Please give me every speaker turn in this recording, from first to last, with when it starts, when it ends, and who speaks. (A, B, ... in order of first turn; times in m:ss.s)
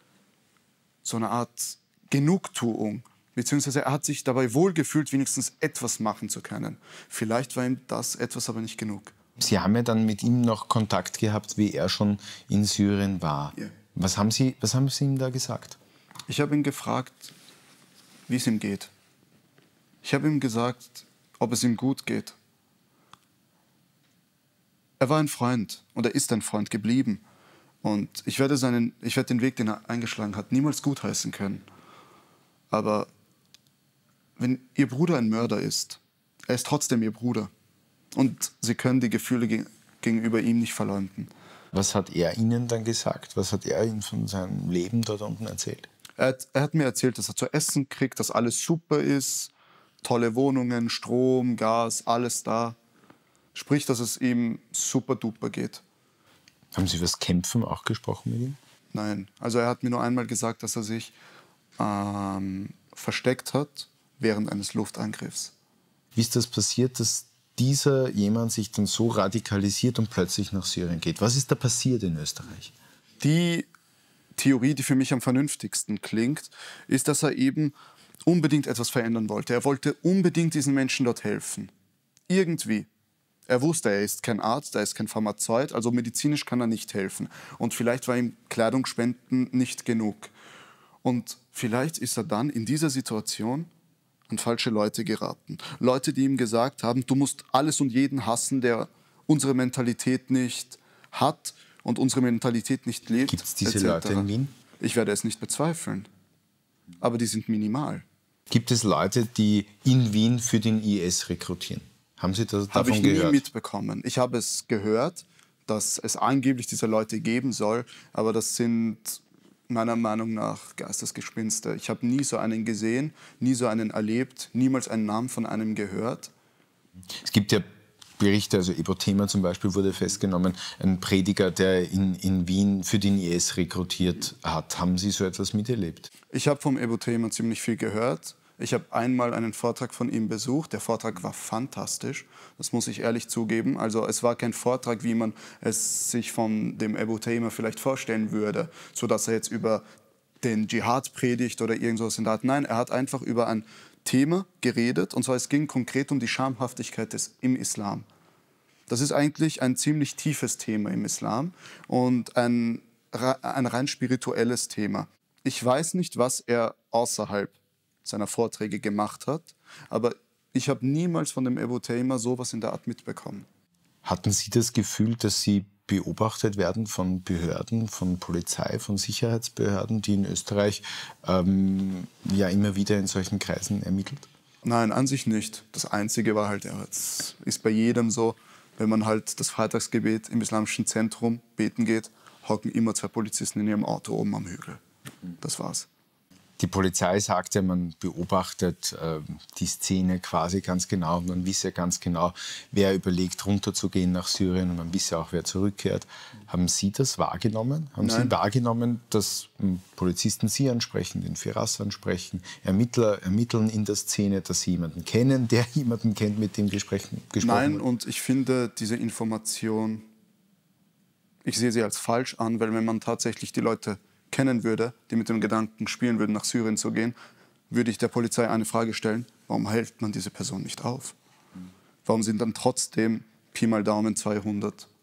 0:01.0-0:09.2 A
0:09.4-0:15.8 B
0:16.3-0:17.3 A
0:18.3-0:18.9 A
0:20.0-0:22.4 A
0:25.0-0:27.2 A
0:27.8-0:31.6 A
0:32.7-0:33.1 A
0:34.4-0:37.5 A
0:38.2-0:41.3 A
0:41.7-0:45.9 B
0:46.2-0:49.5 A
0:50.0-0:52.8 A
0:53.5-0:55.8 A
0:56.7-0:58.6 B
0:58.9-1:01.2 A
1:01.8-1:05.5 A
1:06.2-1:12.7 B
1:13.2-1:13.7 A
1:14.4-1:21.7 A
1:22.3-1:22.9 A
1:23.5-1:30.3 A
1:31.0-1:33.7 A
1:34.3-1:46.1 A
1:43.3-1:44.5 B
1:47.0-1:48.0 A
1:48.5-1:53.4 B
1:52.7-2:06.3 A
2:07.2-2:07.7 B
2:08.2-2:16.1 B
2:16.3-2:29.8 A
2:30.4-2:38.1 A
2:38.9-2:53.5 A
2:54.0-3:04.3 B
3:04.6-3:14.8 A
3:15.4-3:15.9 A
3:16.6-3:37.8 B
3:28.0-3:28.4 A
3:37.4-3:40.0 A
3:41.4-3:47.2 A
3:47.7-3:51.2 A
3:52.0-3:54.9 A